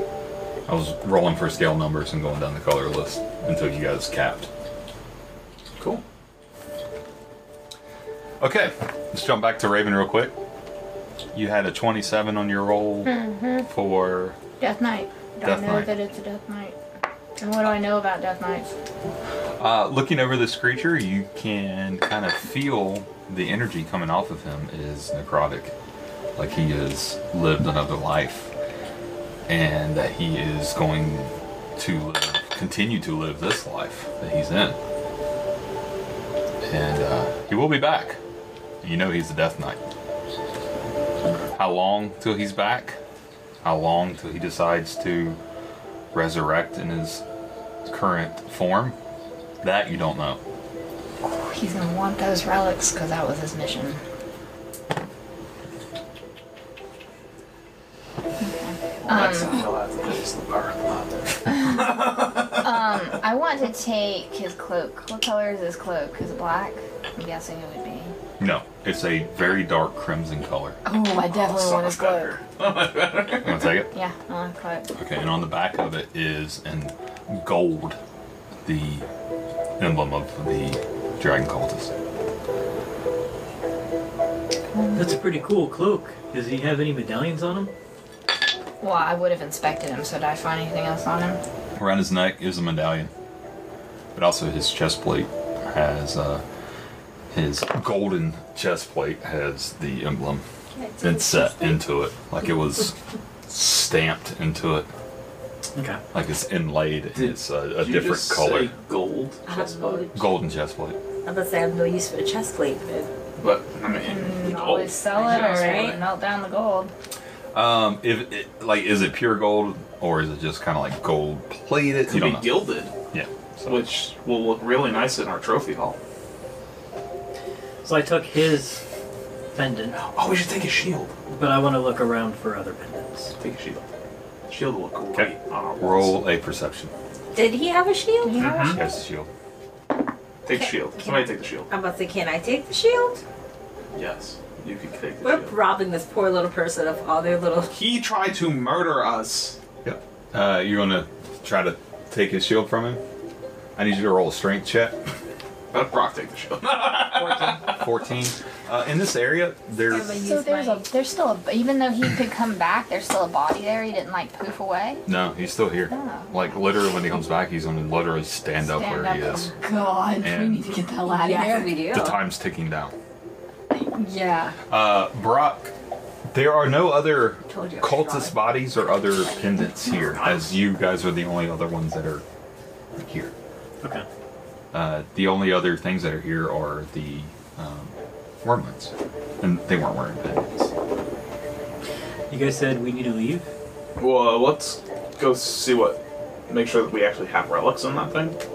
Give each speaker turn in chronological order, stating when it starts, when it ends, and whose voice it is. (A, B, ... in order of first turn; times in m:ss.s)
0:00.7-0:04.5 A
0:08.4-0:10.4 A
0:11.3-0:14.4 A
0:13.1-0:13.6 B
0:14.6-0:16.8 B
0:15.4-0:15.9 A
0:17.4-0:18.7 B
0:19.6-0:25.7 A
0:26.4-0:28.5 A
0:29.5-0:34.8 A
0:36.6-0:38.2 A
0:38.8-0:39.8 A
0:41.6-0:43.0 A
0:43.6-0:45.4 A
0:46.1-0:47.2 A
0:47.9-0:49.0 A
0:49.6-0:50.4 A
0:51.3-0:54.0 B
0:58.4-0:59.7 B
0:59.0-1:02.8 C
1:01.7-1:02.0 B
1:02.5-1:08.1 B
1:08.4-1:10.8 A
1:10.8-1:12.4 B
1:11.2-1:13.7 C
1:13.4-1:13.9 A
1:13.9-1:14.9 B
1:15.0-1:18.0 A
1:18.6-1:19.1 A
1:19.8-1:21.9 A
1:24.9-1:27.7 D
1:28.8-1:31.4 B
1:31.8-1:33.1 A
1:34.2-1:36.4 A
1:37.3-1:40.4 A
1:40.7-1:41.4 E
1:41.0-1:42.9 A
1:43.5-1:44.9 A
1:45.8-1:46.0 D
1:46.1-1:48.7 A
1:47.2-1:50.2 C
1:49.5-1:50.1 E
1:50.1-1:51.0 A
1:51.2-1:53.1 E
1:53.4-1:56.0 C
1:54.0-1:56.9 B
1:55.2-1:56.0 E
1:57.5-2:03.8 A
2:02.1-2:02.9 C
2:03.6-2:06.0 C
2:07.8-2:08.8 D
2:09.5-2:10.0 D
2:10.0-2:11.1 C
2:11.3-2:13.3 D
2:13.4-2:13.8 C
2:14.5-2:16.2 C
2:15.1-2:16.9 A
2:17.3-2:18.7 E
2:18.2-2:18.8 B
2:18.4-2:18.8 C
2:18.7-2:19.3 A
2:20.4-2:21.7 C
2:20.5-2:23.2 E
2:24.0-2:25.6 C
2:25.2-2:27.7 E
2:27.7-2:29.6 C
2:29.8-2:33.0 A
2:33.8-2:35.0 A
2:35.7-2:37.8 C
2:37.2-2:37.6 D
2:37.6-2:40.2 A
2:39.8-2:40.9 E
2:40.1-2:45.0 B
2:45.1-2:49.5 A
2:45.9-2:46.6 B
2:48.6-2:51.8 B
2:50.2-2:50.8 A
2:51.0-2:52.2 E
2:51.9-2:53.0 A
2:53.7-2:54.6 B
2:54.7-2:55.7 A
2:56.3-3:02.2 A
2:57.5-2:58.5 E
3:00.0-3:00.6 C
3:03.0-3:03.3 A
3:04.7-3:10.7 A
3:12.3-3:13.5 D
3:14.0-3:16.0 C
3:16.5-3:18.4 C